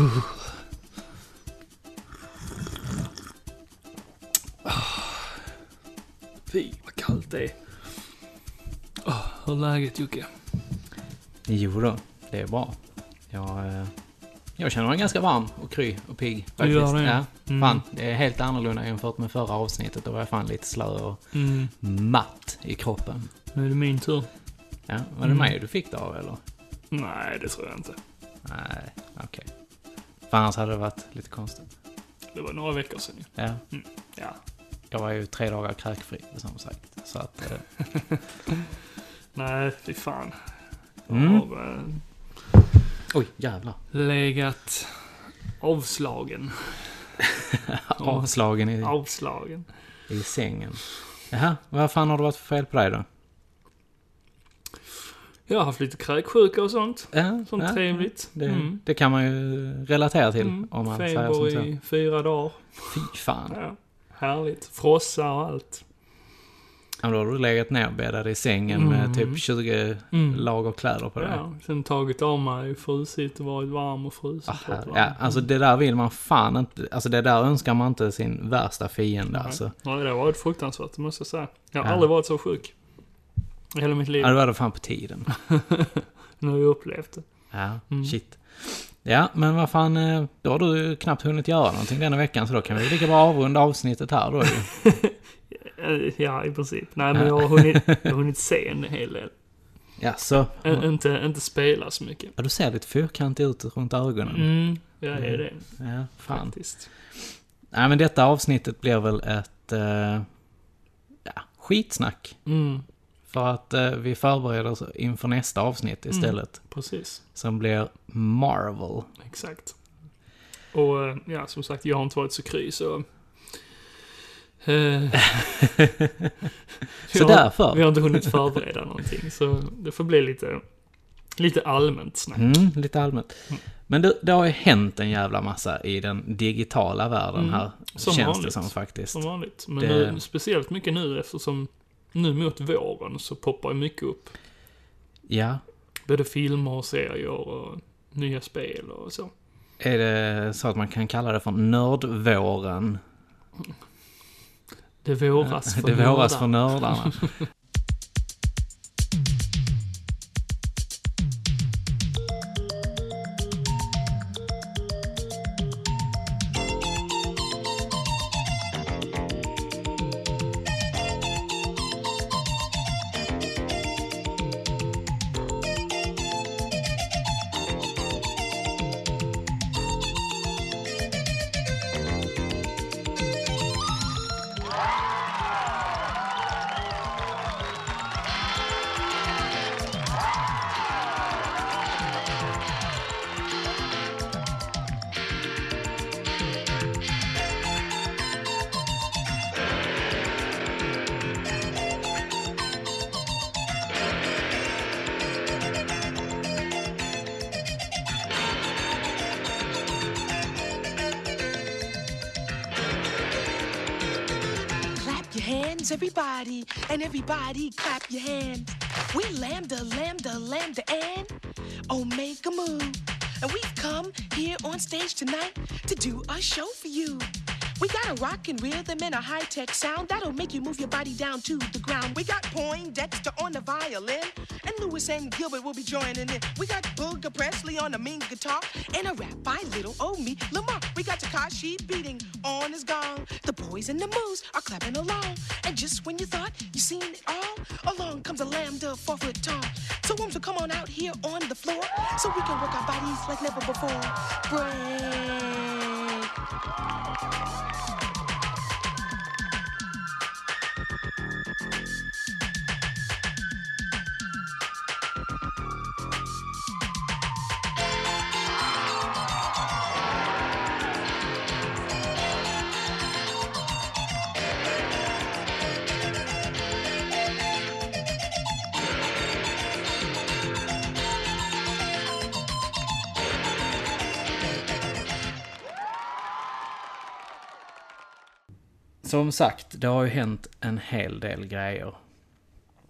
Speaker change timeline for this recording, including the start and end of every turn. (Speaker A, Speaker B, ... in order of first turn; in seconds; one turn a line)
Speaker A: 4.7-5.3
Speaker A: 6.5-8.0
Speaker A: 9.0-10.3
Speaker B: 11.5-12.8
Speaker B: 13.3-13.9
Speaker B: 14.6-21.2
Speaker A: 16.6-17.8
Speaker A: 21.3-21.7
Speaker B: 21.7-23.3
Speaker A: 23.5-24.3
Speaker B: 24.9-26.4
Speaker A: 25.2-25.5
Speaker A: 26.9-28.0
Speaker B: 28.4-29.5
Speaker B: 30.3-31.7
Speaker A: 32.3-34.4
Speaker B: 34.9-37.8
Speaker A: 39.4-40.5
Speaker A: 41.1-42.0
Speaker B: 41.1-41.5
Speaker B: 43.1-43.8
Speaker A: 43.9-47.0
Speaker B: 47.5-48.9
Speaker A: 48.0-49.7
Speaker B: 50.1-53.1
Speaker A: 55.5-58.8
Speaker B: 57.1-61.7
Speaker A: 60.4-65.8
Speaker B: 62.9-63.6
Speaker B: 67.0-71.4
Speaker A: 68.7-69.4
Speaker A: 70.1-70.5
Speaker A: 71.2-75.4
Speaker B: 74.5-79.7
Speaker A: 79.3-82.8
Speaker B: 81.8-82.1
Speaker A: 83.8-84.4
Speaker B: 84.2-85.3
Speaker A: 85.7-87.3
Speaker B: 87.5-94.7
Speaker A: 87.9-88.2
Speaker A: 94.8-99.3
Speaker B: 97.1-98.1
Speaker B: 100.0-100.8
Speaker A: 100.6-102.3
Speaker B: 102.4-104.5
Speaker A: 104.3-106.9
Speaker B: 105.1-106.6
Speaker B: 107.7-110.3
Speaker B: 111.3-112.4
Speaker A: 112.5-112.8
Speaker B: 113.3-119.1
Speaker A: 116.1-117.2
Speaker A: 119.2-119.8
Speaker A: 120.7-123.8
Speaker A: 124.6-125.3
Speaker B: 125.3-126.3
Speaker B: 127.1-128.4
Speaker A: 127.1-130.6
Speaker A: 131.4-132.4
Speaker B: 132.3-140.2
Speaker A: 137.3-144.3
Speaker B: 145.3-145.6
Speaker A: 146.1-149.3
Speaker B: 149.8-153.0
Speaker A: 155.0-157.3
Speaker B: 155.4-157.4
Speaker C: 215.0-221.3
Speaker C: 221.9-256.3
Speaker B: 289.0-292.0